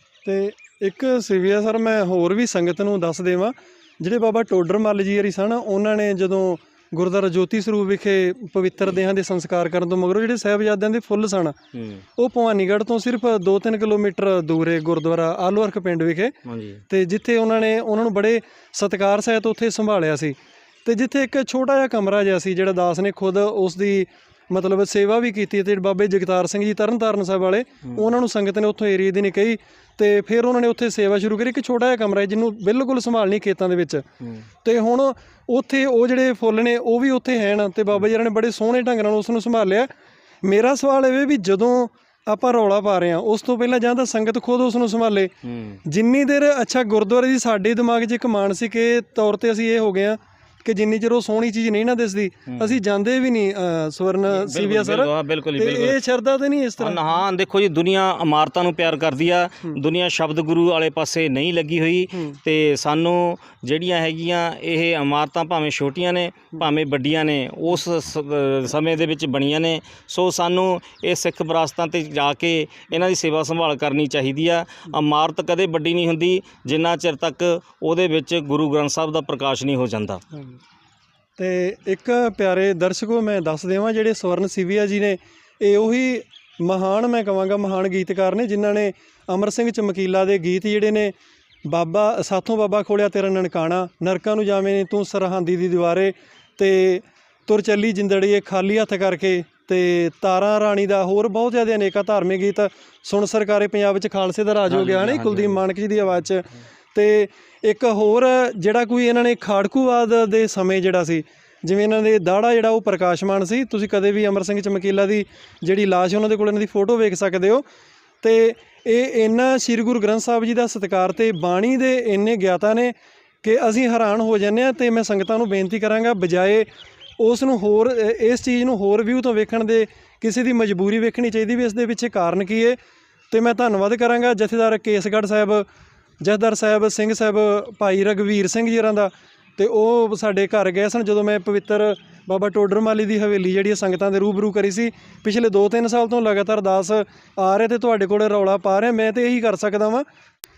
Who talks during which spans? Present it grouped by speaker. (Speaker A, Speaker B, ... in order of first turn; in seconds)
Speaker A: 0.2-11.6, 12.2-16.4, 16.9-34.0, 34.6-39.9, 40.4-45.3, 45.9-57.0, 81.4-91.1, 91.7-117.6, 118.2-126.7, 127.2-132.8, 133.3-135.7, 136.2-150.1
Speaker B: 11.7-12.0, 16.5-16.8, 45.4-45.8, 52.5-52.8, 54.3-56.0, 56.8-80.2, 104.7-105.6